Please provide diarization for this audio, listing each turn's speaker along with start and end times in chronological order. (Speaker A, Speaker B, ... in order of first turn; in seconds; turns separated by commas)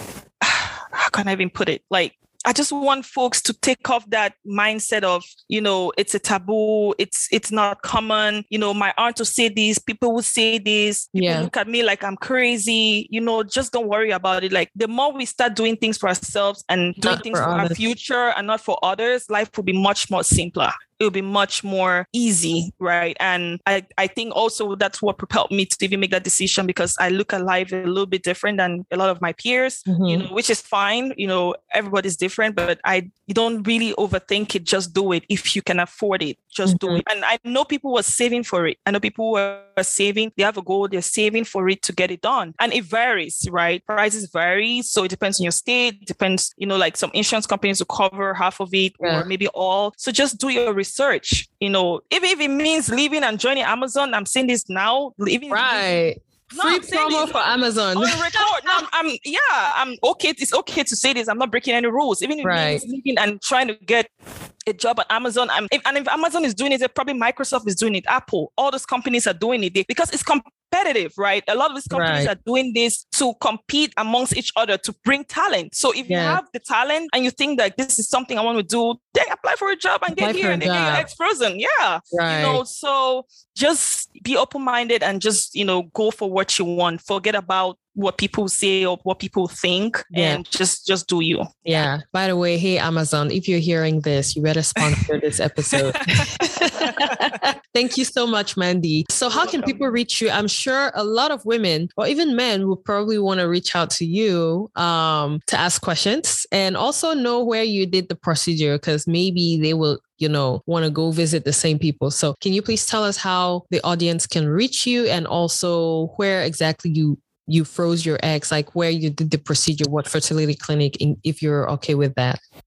Speaker A: 0.4-55.9, Speaker B: 11.1-11.5, Speaker B: 17.0-17.8, Speaker B: 29.9-30.2, Speaker B: 36.6-37.0, Speaker B: 49.0-49.3, Speaker B: 55.5-58.8, Speaker A: 56.5-57.4, Speaker A: 58.0-64.1, Speaker B: 62.4-62.8, Speaker A: 64.7-91.9, Speaker B: 71.9-72.3, Speaker B: 76.1-76.4, Speaker B: 80.2-81.1, Speaker B: 82.1-82.6, Speaker B: 90.1-90.4, Speaker B: 91.7-122.4, Speaker A: 95.7-97.3, Speaker A: 99.3-99.9